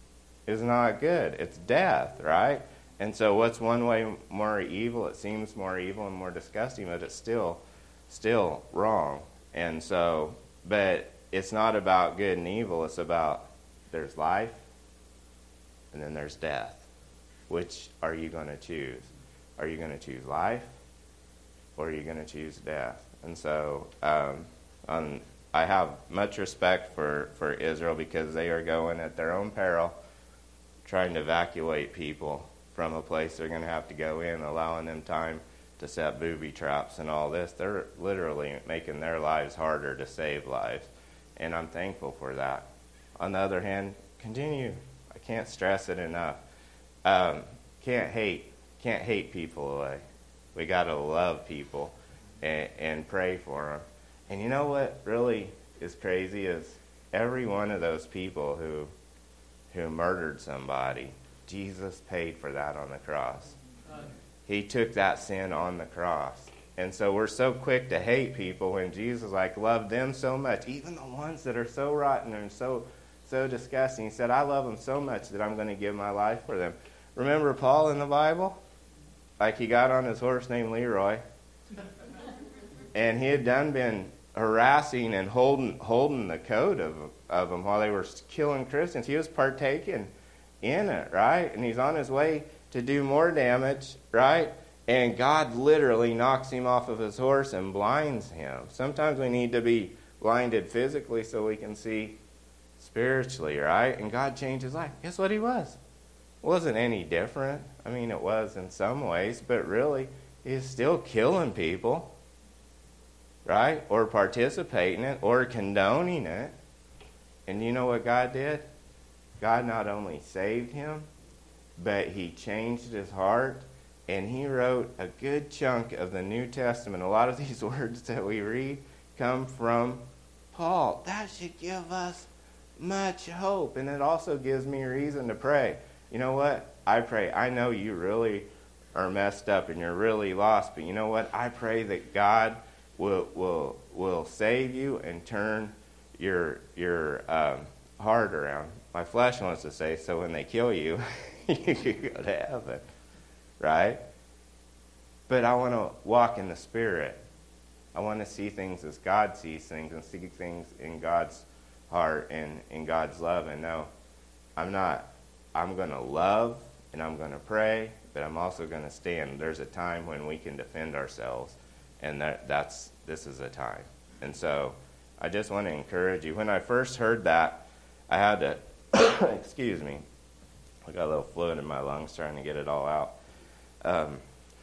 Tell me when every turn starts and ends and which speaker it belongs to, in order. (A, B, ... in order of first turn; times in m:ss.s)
0:00.5-0:14.6 A
0:15.9-0:16.9 A
0:17.5-0:20.7 A
0:21.8-0:30.0 A
0:30.8-0:42.7 A
0:43.2-0:46.4 A
0:47.0-0:50.0 A
0:50.5-0:58.9 A
0:59.7-1:03.5 A
1:04.5-1:18.6 A
1:19.4-1:21.2 A
1:22.9-1:30.1 A
1:30.6-1:42.2 A
1:42.8-1:45.8 A
1:46.4-1:52.1 A
1:53.4-1:56.5 A
1:57.4-1:58.6 A
1:59.4-2:01.1 A
2:01.8-2:32.8 A
2:33.6-2:34.0 A
2:35.3-2:37.2 A
2:37.9-2:43.9 A
2:44.6-3:00.0 A
3:00.8-3:03.1 A
3:03.8-3:04.2 A